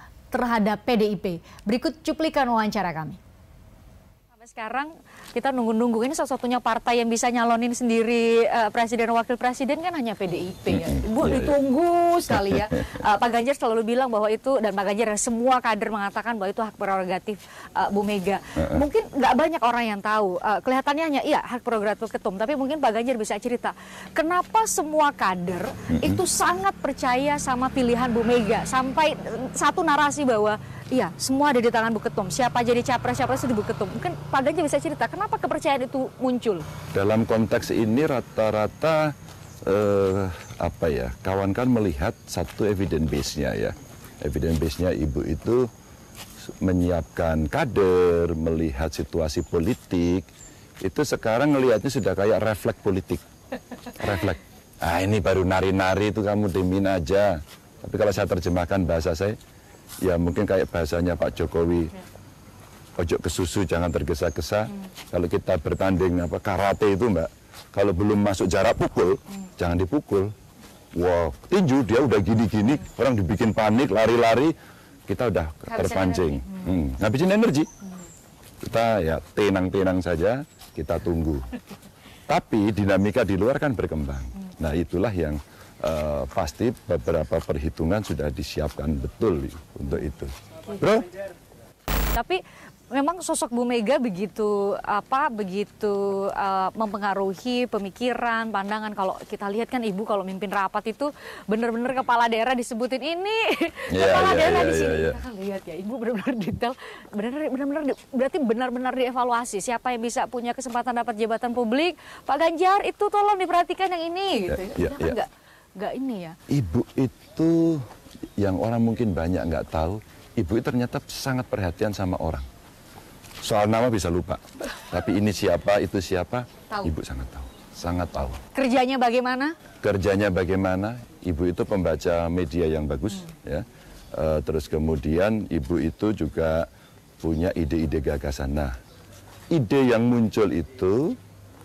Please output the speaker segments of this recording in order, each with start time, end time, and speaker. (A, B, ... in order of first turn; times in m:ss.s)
0:00.3-0:03.2 A
0:04.3-0:36.6 A
0:10.7-0:11.5 B
0:12.3-0:12.8 B
0:18.6-0:18.8 B
0:25.9-0:26.2 B
0:36.9-0:39.1 B
0:39.7-0:45.7 B
0:46.6-0:50.3 B
0:50.8-0:53.2 B
0:54.0-0:59.4 B
1:00.0-1:01.9 B
1:03.0-1:10.3 B
1:10.9-1:14.5 B
1:15.1-1:17.7 B
1:15.7-1:16.6 A
1:18.6-1:21.5 B
1:22.3-1:31.1 B
1:32.1-1:32.4 A
1:32.9-1:56.4 A
1:43.9-1:45.2 B
1:54.5-1:55.2 B
1:56.5-1:57.8 B
1:58.4-2:02.4 B
2:03.4-2:08.4 B
2:08.5-2:09.5 A
2:09.8-2:16.7 B
2:17.2-2:18.7 B
2:19.5-2:21.2 B